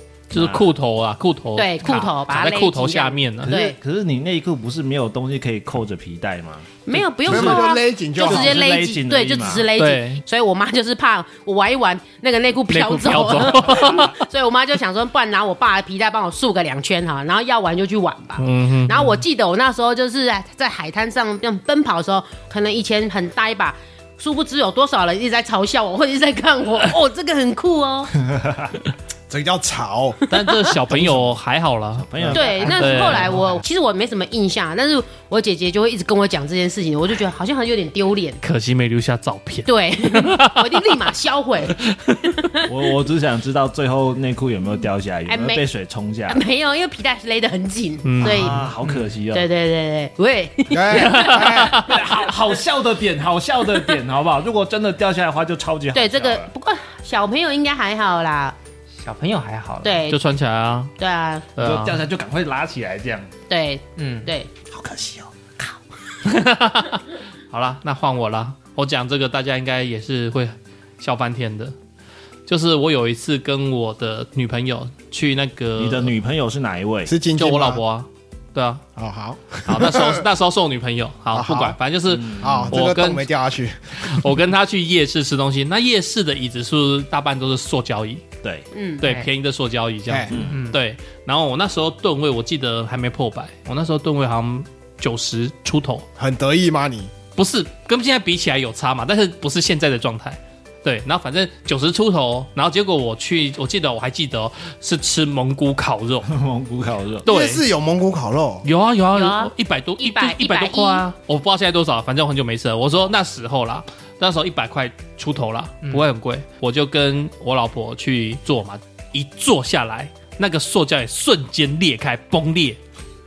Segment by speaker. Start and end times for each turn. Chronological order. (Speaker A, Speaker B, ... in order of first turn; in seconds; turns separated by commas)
Speaker A: 0.3-3.5, Speaker B: 0.3-0.7, Speaker C: 1.6-3.8, Speaker B: 3.4-6.7, Speaker C: 6.8-28.1, Speaker B: 7.2-7.7, Speaker D: 7.2-8.6, Speaker B: 8.2-9.7, Speaker A: 9.8-10.2, Speaker A: 12.7-14.1, Speaker A: 18.4-19.2, Speaker B: 28.2-28.8, Speaker D: 29.3-30.2, Speaker C: 30.3-30.7, Speaker A: 30.3-33.4, Speaker B: 30.9-31.3, Speaker B: 32.0-33.4, Speaker C: 32.3-38.4, Speaker A: 38.4-40.8, Speaker C: 39.7-41.8, Speaker A: 41.8-42.3, Speaker C: 42.4-42.6, Speaker B: 42.6-46.4, Speaker C: 45.3-45.6, Speaker C: 46.3-48.7, Speaker A: 48.0-48.6, Speaker B: 48.2-49.5, Speaker C: 49.3-52.0, Speaker D: 50.7-51.8, Speaker A: 50.9-51.9, Speaker B: 51.9-56.5, Speaker C: 55.9-58.5, Speaker E: 59.0-60.0, Speaker C: 59.8-60.2, Speaker A: 60.1-60.9, Speaker C: 61.0-61.5, Speaker A: 61.6-62.0, Speaker B: 61.6-63.3, Speaker C: 63.5-64.5, Speaker E: 64.0-64.3, Speaker B: 64.6-65.8, Speaker A: 66.2-71.7, Speaker A: 72.5-76.1, Speaker B: 75.8-77.1, Speaker D: 77.0-77.8, Speaker A: 77.3-78.8, Speaker D: 79.0-80.2, Speaker A: 79.7-83.3, Speaker D: 81.3-81.8, Speaker B: 82.1-82.8, Speaker D: 82.4-84.1, Speaker A: 84.0-88.3, Speaker B: 88.4-88.7, Speaker C: 88.7-89.0, Speaker A: 89.0-96.0, Speaker E: 89.0-89.3, Speaker D: 90.1-90.4, Speaker B: 90.3-90.6, Speaker E: 90.4-90.8, Speaker D: 96.2-97.1, Speaker A: 97.3-106.3, Speaker B: 106.2-107.2, Speaker A: 107.2-107.6, Speaker D: 107.2-108.6, Speaker A: 108.6-122.8, Speaker C: 109.1-111.0